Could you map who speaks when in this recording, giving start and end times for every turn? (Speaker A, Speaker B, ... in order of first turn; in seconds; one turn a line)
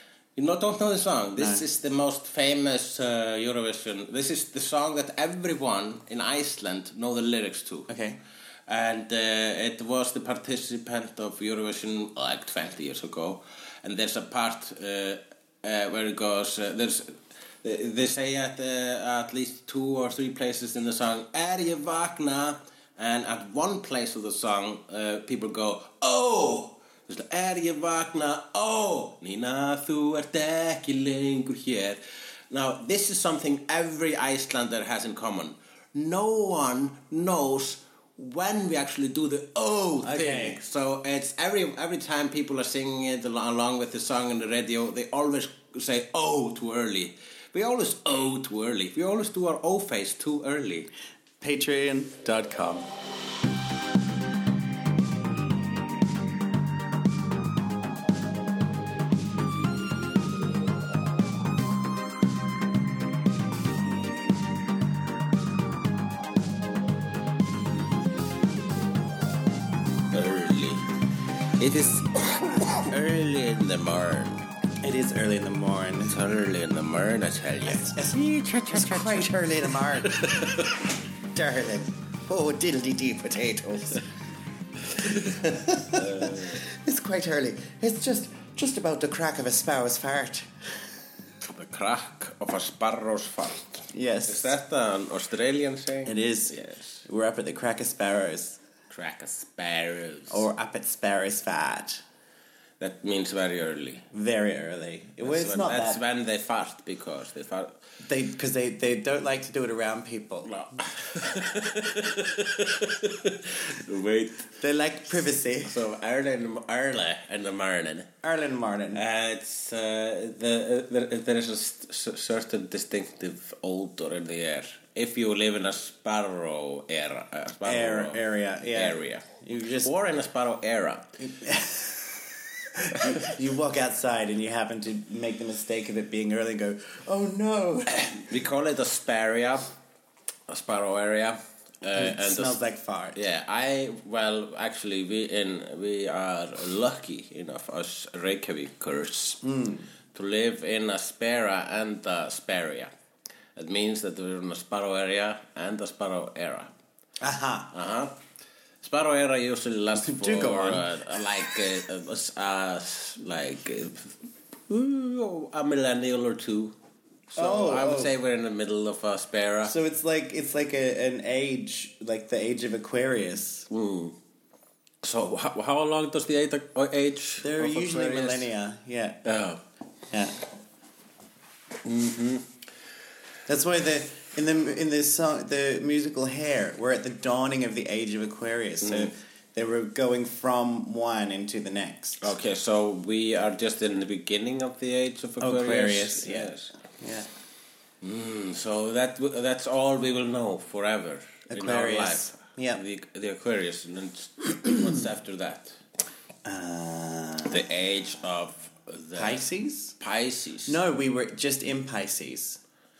Speaker A: 0.4-7.9
Speaker B: 1.4-1.6
Speaker B: 7.9-8.2
Speaker A: 8.7-50.9
Speaker B: 40.0-40.6
Speaker B: 51.4-52.9
Speaker A: 70.1-70.9
Speaker A: 71.6-74.4
Speaker B: 74.8-76.2
Speaker A: 76.1-80.9
Speaker B: 77.9-78.2
Speaker B: 78.7-80.7
Speaker B: 81.3-84.1
Speaker B: 85.0-90.5
Speaker A: 85.0-85.4
Speaker A: 85.9-86.6
Speaker A: 91.4-97.0
Speaker B: 93.9-94.5
Speaker B: 96.0-96.5
Speaker B: 97.1-98.6
Speaker A: 98.9-100.5
Speaker B: 100.3-102.0
Speaker A: 102.8-104.0
Speaker B: 104.1-106.0
Speaker A: 105.2-107.8
Speaker B: 108.0-110.6
Speaker A: 110.5-114.5
Speaker B: 114.6-115.8
Speaker A: 115.6-118.1
Speaker B: 118.2-119.0
Speaker A: 118.9-129.3
Speaker B: 127.7-129.9
Speaker A: 129.8-131.2
Speaker B: 131.2-138.1
Speaker A: 137.9-139.7
Speaker A: 140.5-142.6
Speaker B: 142.0-143.2
Speaker A: 143.2-149.4
Speaker B: 149.4-149.9
Speaker A: 150.1-152.9
Speaker A: 153.6-156.7
Speaker B: 157.2-157.7
Speaker A: 157.7-158.2
Speaker A: 158.8-166.8
Speaker B: 160.0-160.9
Speaker A: 167.3-169.7
Speaker B: 167.4-168.1
Speaker B: 169.6-173.7
Speaker A: 173.7-174.2
Speaker A: 175.0-178.5
Speaker B: 177.4-179.2
Speaker A: 179.2-179.6
Speaker B: 180.1-180.4
Speaker A: 181.8-182.4
Speaker B: 183.5-192.3
Speaker A: 188.8-189.1
Speaker A: 192.2-196.7
Speaker B: 195.4-197.3
Speaker A: 198.0-205.8
Speaker B: 201.5-202.8
Speaker B: 206.4-207.6
Speaker A: 207.4-209.4
Speaker B: 209.2-209.9
Speaker A: 210.0-210.8
Speaker B: 210.7-212.6